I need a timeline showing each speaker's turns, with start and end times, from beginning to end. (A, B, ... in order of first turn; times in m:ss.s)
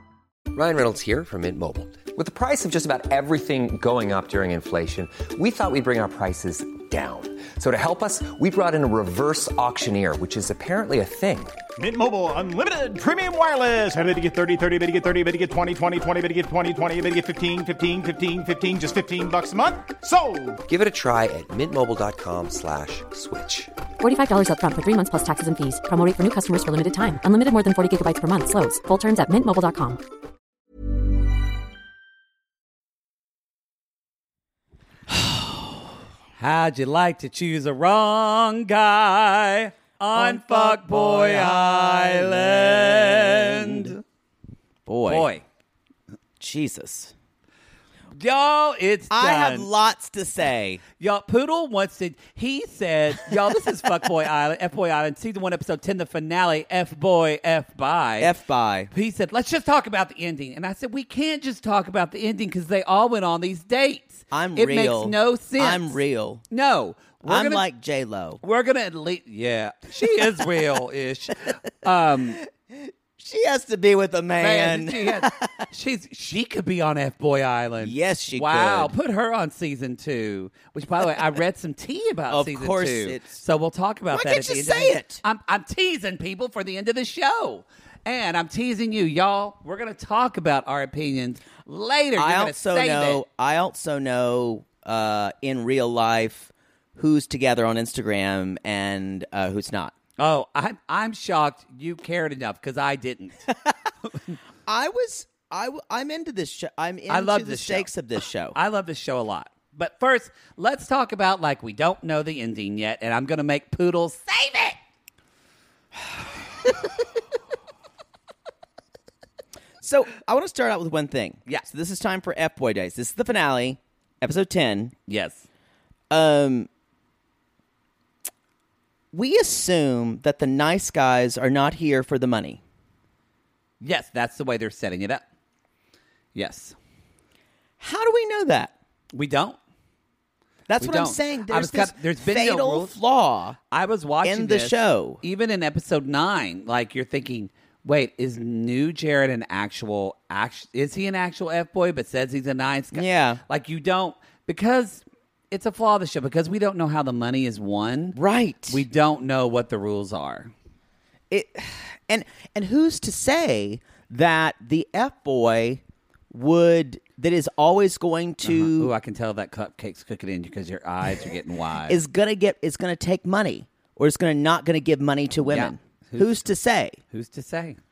0:00.5-0:11.6 A
0:11.8-0:20.6 B
0:20.7-0:23.7 A
0:24.0-0:30.0 C
0:35.1-0:35.7 D
0:36.4-0:44.0 E
0:40.1-0:43.9 D
0:44.9-0:45.3 D
0:45.1-0:45.4 E
0:46.4-0:47.1 D
0:48.2-0:49.7 E
0:49.1-0:50.8 D
0:51.0-0:58.3 E
0:58.2-0:58.9 D
0:58.9-1:07.6 E
1:04.3-1:06.4 D
1:07.2-1:08.4 D
1:08.4-1:12.4 E
1:12.7-1:15.5 D
1:14.4-1:33.2 E
1:17.8-1:18.9 D
1:22.3-1:23.4 D
1:24.1-1:25.2 D
1:32.2-1:39.9 D
1:40.2-1:43.5 E
1:44.1-1:44.4 E
1:44.7-1:48.6 D
1:47.1-1:47.9 E
1:48.5-1:54.8 E
1:59.8-2:04.9 D
2:05.1-2:05.5 E
2:06.1-2:06.7 D
2:09.1-2:12.6 D
2:13.8-2:15.2 E
2:16.4-2:16.8 E
2:17.8-2:18.7 D
2:19.1-2:19.6 E
2:20.7-2:23.6 D
2:20.8-2:22.9 E
2:23.7-2:38.2 E
2:24.2-2:25.2 D
2:32.9-2:33.4 D
2:38.2-2:38.8 D
2:38.7-2:40.5 E
2:41.3-2:48.9 D
2:48.4-2:52.0 E
2:51.9-2:57.0 D
2:55.4-2:56.5 E
2:57.1-2:57.8 E